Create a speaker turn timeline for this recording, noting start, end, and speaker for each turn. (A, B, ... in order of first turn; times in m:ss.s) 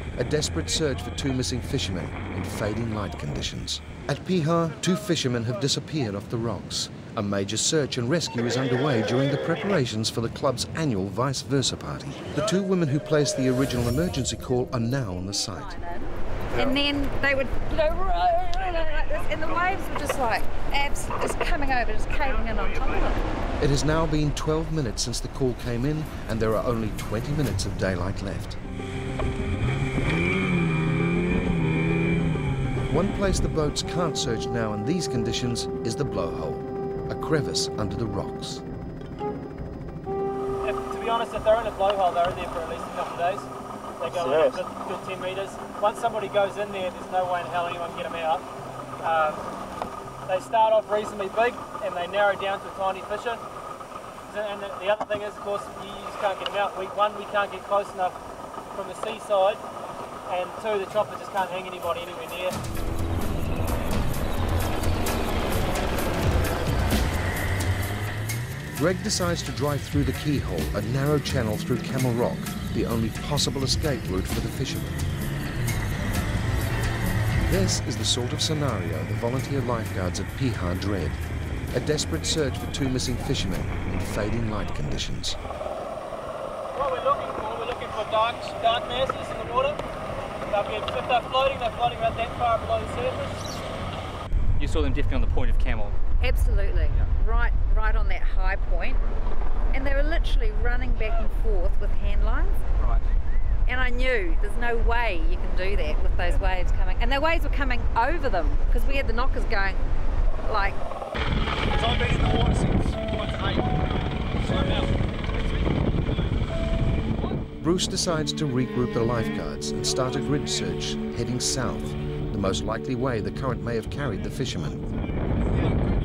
0:00.2-0:15.8 A
0:15.5-0:23.2 B
0:23.6-0:28.6 A
0:32.8-0:38.6 A
0:40.6-0:43.5 C
0:44.0-0:48.4 C
0:44.1-0:44.6 D
0:49.0-0:49.4 C
0:50.3-0:53.4 C
0:54.3-0:58.2 C
0:58.7-0:59.6 C
1:00.3-1:02.6 C
1:08.8-1:15.0 A
1:17.4-1:21.2 A
1:21.7-1:25.4 A
1:26.7-1:29.8 C
1:30.5-1:33.4 C
1:34.6-1:36.0 D
1:36.2-1:39.0 B
1:39.7-1:42.6 B
1:43.7-1:49.8 B
1:50.4-1:50.8 B
1:51.7-1:53.6 C
1:54.4-1:54.9 C
1:57.6-2:04.8 A